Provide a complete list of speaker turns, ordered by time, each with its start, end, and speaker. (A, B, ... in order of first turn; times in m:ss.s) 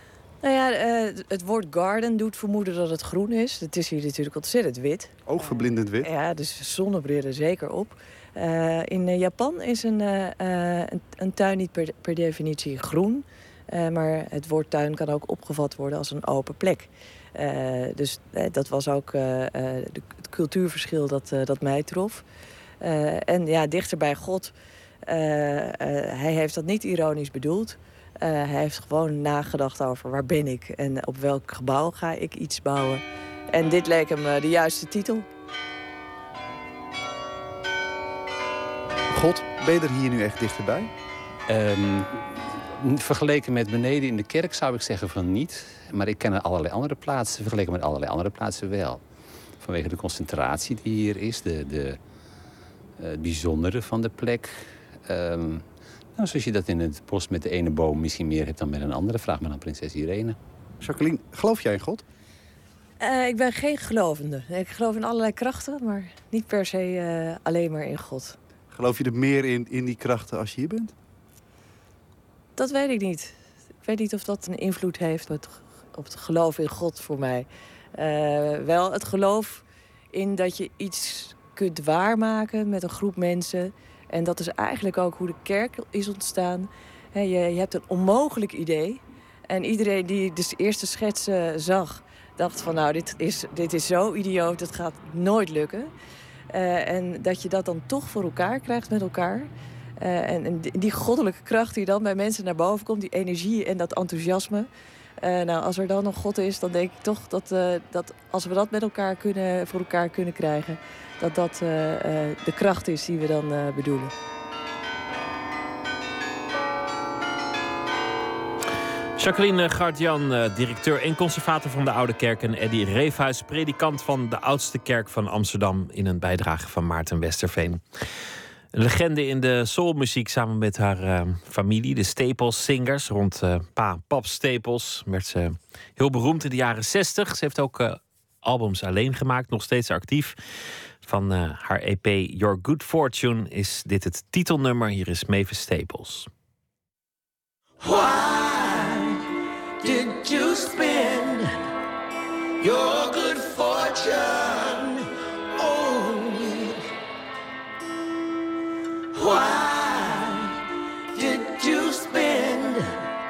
0:00.4-0:22.2 A
0:05.3-0:06.1 B
0:22.8-0:24.5 A
0:25.1-0:35.3 A
0:39.1-0:40.9 B
0:41.5-0:49.0 C
0:49.6-0:52.0 C
0:53.0-0:55.6 C
0:56.2-1:00.4 C
1:00.8-1:02.0 B
1:03.0-1:08.4 A
1:08.7-1:10.9 B
1:12.6-1:35.9 A
1:36.5-1:44.7 A
1:45.2-1:54.1 A
1:59.2-2:07.8 D
2:08.7-2:20.4 D
2:21.0-2:26.3 D
2:27.8-2:29.2 E
2:29.8-2:31.5 E
2:32.6-2:36.8 E
2:39.1-2:40.6 E
2:41.1-2:43.0 E